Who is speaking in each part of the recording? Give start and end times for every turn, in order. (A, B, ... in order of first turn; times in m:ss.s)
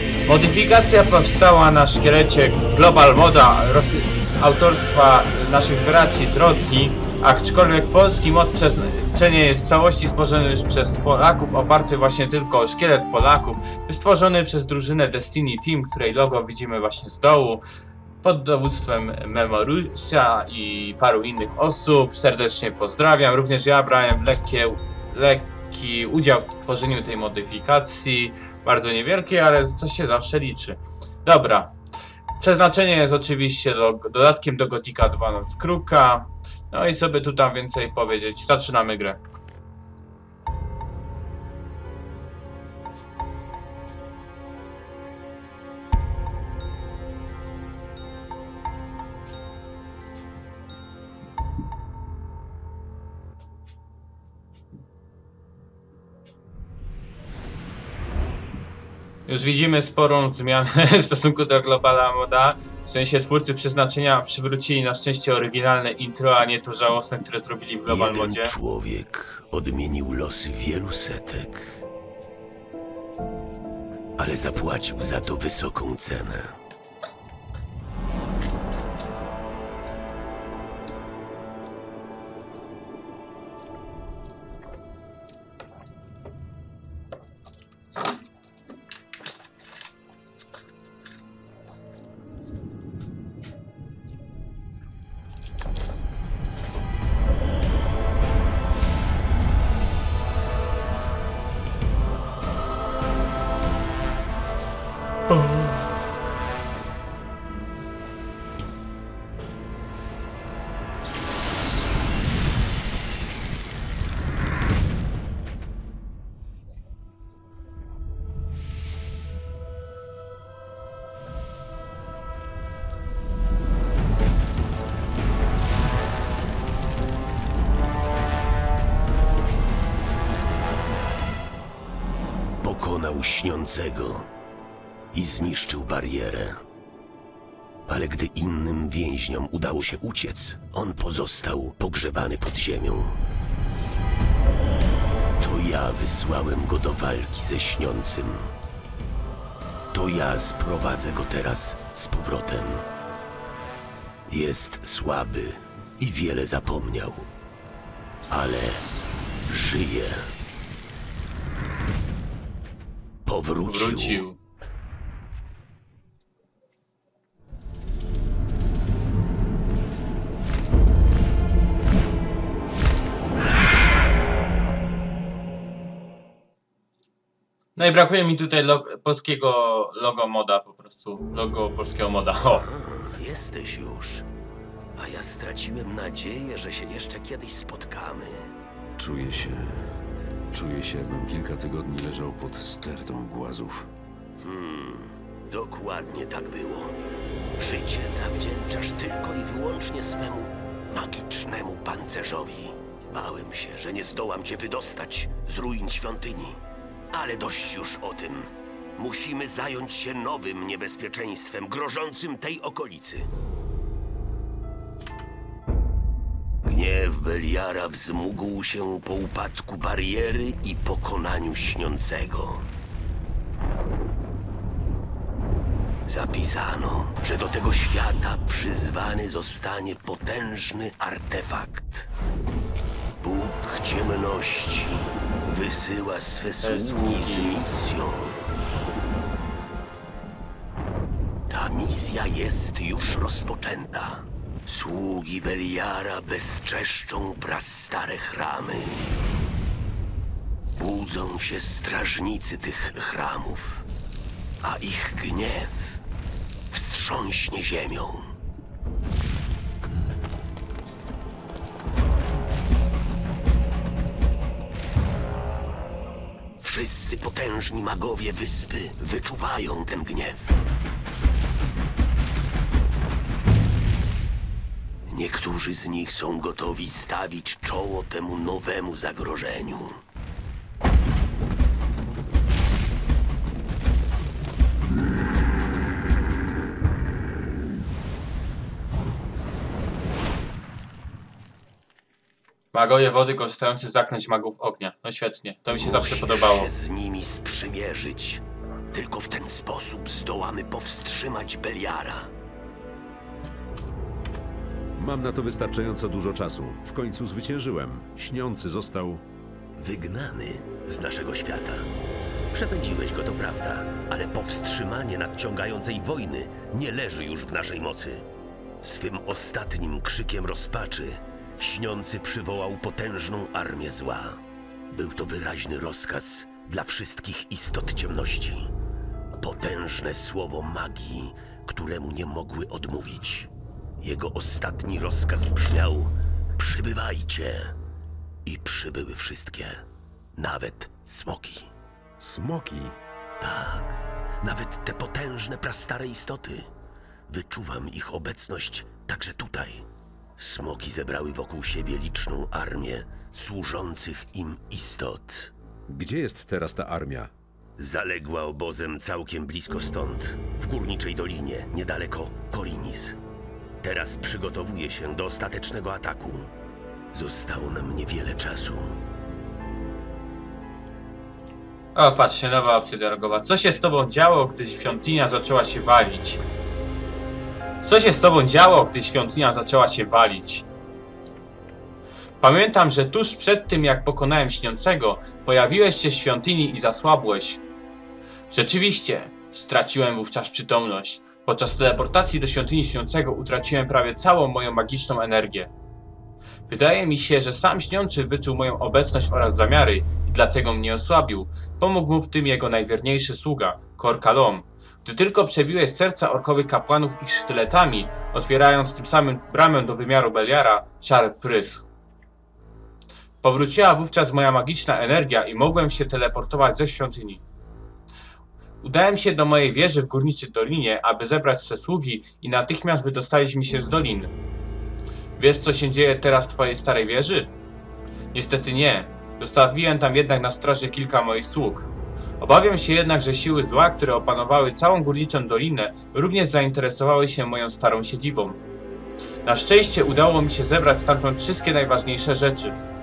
0:00.3-0:17.6 A
0:18.2-0:31.7 A
0:32.4-0:39.2 A
0:59.3-1:08.6 A
1:07.8-1:11.8 B
1:14.2-1:16.6 B
2:12.6-2:14.3 B
2:15.1-2:16.6 B
2:17.9-2:23.2 B
2:25.4-2:28.5 B
2:29.9-2:32.9 B
2:34.3-2:37.3 B
2:38.3-2:38.9 B
2:39.5-2:40.3 B
2:43.3-2:44.2 B
2:43.6-2:44.4 A
2:57.8-3:02.7 A
3:02.4-3:04.3 B
3:05.0-3:08.5 B
3:09.0-3:09.9 C
3:10.5-3:13.9 C
3:14.4-3:17.0 B
3:17.6-3:26.6 B
3:27.1-3:33.3 B
3:36.6-3:42.7 B
3:46.0-3:52.1 B
3:53.2-3:58.4 B
3:56.6-3:57.6 A
4:01.5-4:09.1 B
4:10.8-4:13.9 B
4:14.6-4:16.0 B
4:16.7-4:18.3 B
4:26.6-4:30.5 B
4:35.1-4:40.0 B
4:52.7-4:56.7 A
4:55.8-5:02.3 B
5:05.0-5:09.2 C
5:09.8-5:11.9 B
5:12.5-5:18.3 B
5:18.8-5:28.7 B
5:29.4-5:37.8 B
5:38.4-5:39.8 B
5:40.4-5:41.7 B
5:42.2-5:43.0 C
5:43.4-5:46.7 B
5:47.3-5:55.5 B
5:55.9-5:57.3 C
5:57.8-6:03.2 B
6:03.8-6:06.5 B
6:07.1-6:09.0 B
6:11.9-6:16.4 A
6:17.8-6:20.7 A
6:22.4-6:27.6 A
6:28.5-6:35.7 A
6:36.7-6:51.9 A
6:53.4-6:57.4 A
6:58.8-7:04.3 A
7:05.4-7:07.5 A
7:08.3-7:18.6 A
7:19.4-7:22.8 A